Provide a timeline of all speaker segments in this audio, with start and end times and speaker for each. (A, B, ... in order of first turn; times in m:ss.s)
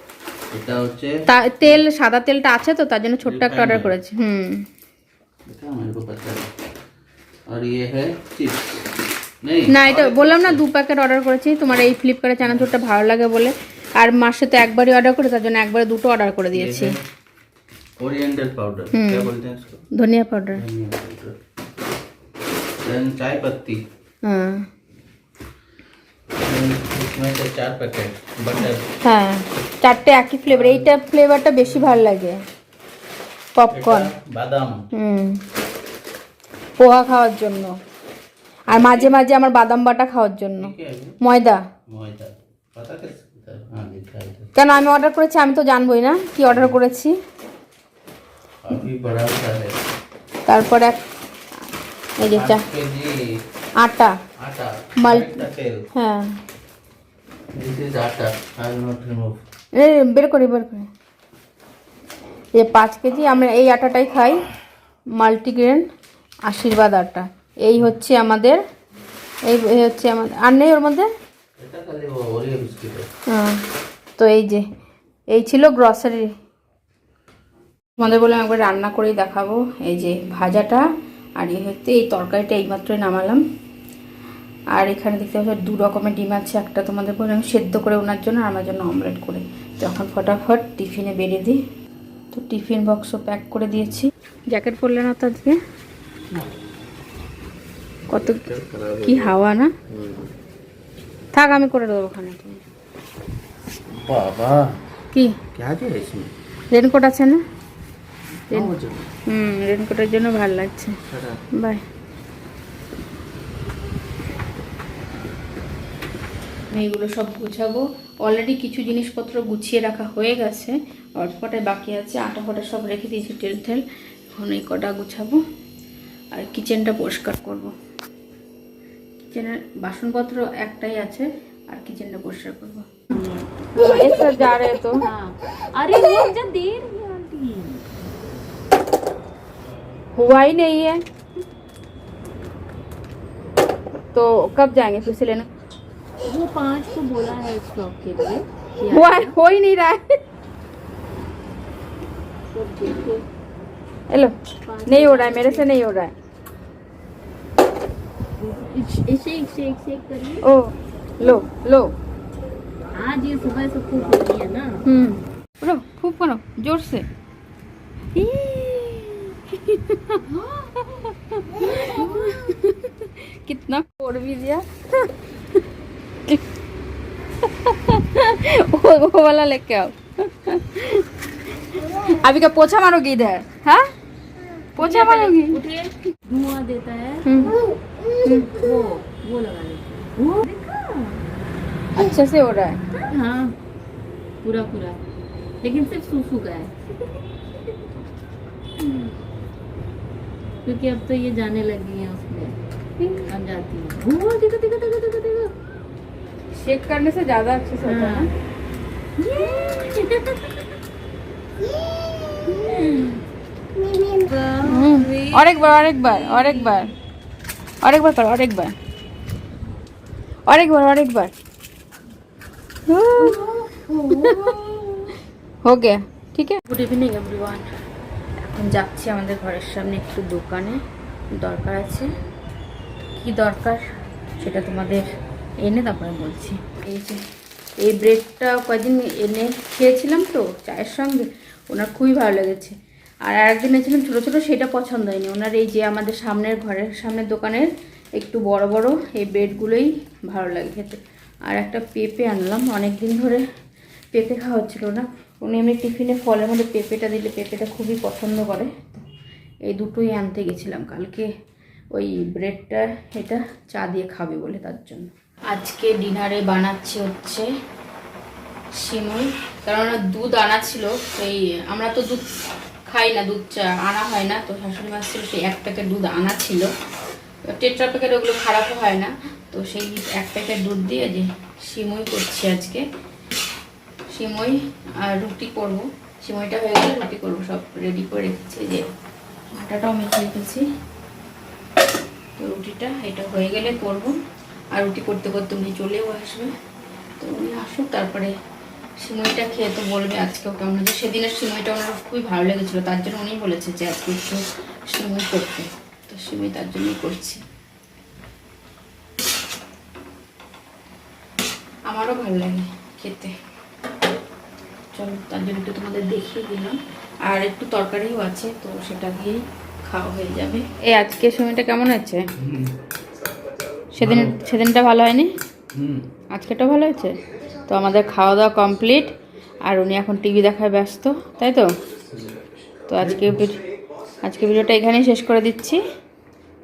0:00.5-0:01.8 A
0:01.3-0:04.6 B
0:03.2-0:03.9 A
0:05.5-0:06.5 A
0:07.5-0:08.8 A
0:09.4-0:10.6 A
0:09.7-0:16.9 B
0:16.5-0:17.0 A
0:18.0-0:19.8 A
0:18.9-0:19.3 B
0:20.0-0:20.6 B
0:20.5-0:21.4 A
0:22.8-0:23.8 A
0:24.2-0:24.7 B
0:26.4-0:28.9 A
0:29.0-0:32.4 B
0:30.5-0:31.0 A
0:31.6-0:32.0 A
0:33.6-0:34.1 B
0:33.7-0:34.8 A
0:34.9-0:35.4 B
0:36.8-0:37.8 B
0:38.7-0:39.1 A
0:38.7-0:41.6 B
0:40.6-0:41.2 A
0:41.9-0:44.5 A
0:44.6-0:47.2 B
0:46.5-0:46.8 A
0:48.6-0:49.8 A
0:50.5-0:51.0 B
0:52.2-0:52.7 B
0:52.3-0:53.2 A
0:53.8-0:54.2 B
0:54.4-0:55.8 A
0:55.0-0:56.4 B
0:57.6-0:59.4 A
0:59.7-1:00.9 B
1:02.6-1:04.4 B
1:05.2-1:05.9 B
1:06.5-1:08.6 B
1:09.5-1:11.1 B
1:11.6-1:13.1 A
1:13.3-1:13.6 B
1:14.2-1:14.6 B
1:15.3-1:16.3 B
1:18.0-1:20.8 B
1:21.4-1:23.4 B
1:24.7-1:31.6 B
1:32.3-1:35.6 B
1:36.3-1:36.6 A
1:38.1-1:38.4 B
1:38.1-1:39.4 A
1:39.0-1:39.7 B
1:39.9-1:40.3 A
1:41.3-1:42.6 B
1:43.9-1:44.6 A
1:45.6-1:46.3 A
1:46.7-1:47.4 B
1:48.4-1:49.1 A
1:49.3-1:51.0 B
1:51.1-1:51.4 A
1:56.7-2:05.4 B
2:06.3-2:07.7 B
2:09.3-2:13.0 B
2:13.1-2:18.0 C
2:13.8-2:15.0 B
2:20.2-2:21.0 B
2:24.1-2:25.5 B
2:26.3-2:29.3 C
2:28.9-2:30.0 B
2:32.5-2:33.2 C
2:34.1-2:34.4 B
2:34.7-2:35.8 C
2:34.9-2:36.1 B
2:38.4-2:40.4 C
2:40.4-2:41.9 B
2:42.9-2:44.8 C
2:44.8-2:47.1 B
2:48.2-2:55.1 B
2:51.7-2:52.4 C
2:57.4-3:01.1 B
3:01.7-3:03.9 B
3:04.8-3:07.6 C
3:04.8-3:05.6 B
3:07.3-3:07.6 B
3:08.2-3:08.5 B
3:08.3-3:11.2 C
3:12.0-3:12.8 B
3:13.0-3:13.6 C
3:14.4-3:15.0 C
3:15.6-3:16.7 C
3:20.6-3:22.6 C
3:23.1-3:25.5 C
3:26.6-3:28.3 B
3:27.8-3:28.3 C
3:29.2-3:30.7 C
3:32.4-3:33.2 C
3:33.8-3:36.9 C
3:34.6-3:36.9 B
3:37.8-3:38.7 B
3:40.5-3:41.3 B
3:42.9-3:43.4 B
3:43.2-3:45.1 C
3:44.1-3:44.5 B
3:45.6-3:47.6 B
3:48.4-3:50.8 B
3:51.4-3:52.1 B
3:53.2-3:53.8 B
3:54.4-3:55.1 B
3:55.6-3:57.2 B
3:57.8-4:02.7 B
4:03.3-4:13.4 B
4:14.1-4:19.0 B
4:19.7-4:21.3 B
4:21.9-4:27.5 B
4:28.8-4:32.3 B
4:32.9-4:36.7 B
4:37.5-4:42.8 B
4:44.1-4:48.9 B
4:49.6-4:50.7 B
4:52.4-4:54.2 B
4:54.7-4:56.5 B
4:57.2-4:58.3 B
4:59.0-5:07.4 B
5:11.9-5:13.3 B
5:14.9-5:22.3 B
5:22.4-5:22.8 A
5:23.9-5:25.3 B
5:24.0-5:24.4 A
5:25.7-5:26.0 A
5:26.3-5:27.2 B
5:27.7-5:29.1 B
5:29.6-5:31.7 B
5:32.1-5:32.4 A
5:32.9-5:33.6 B
5:33.0-5:33.6 A
5:34.2-5:35.8 B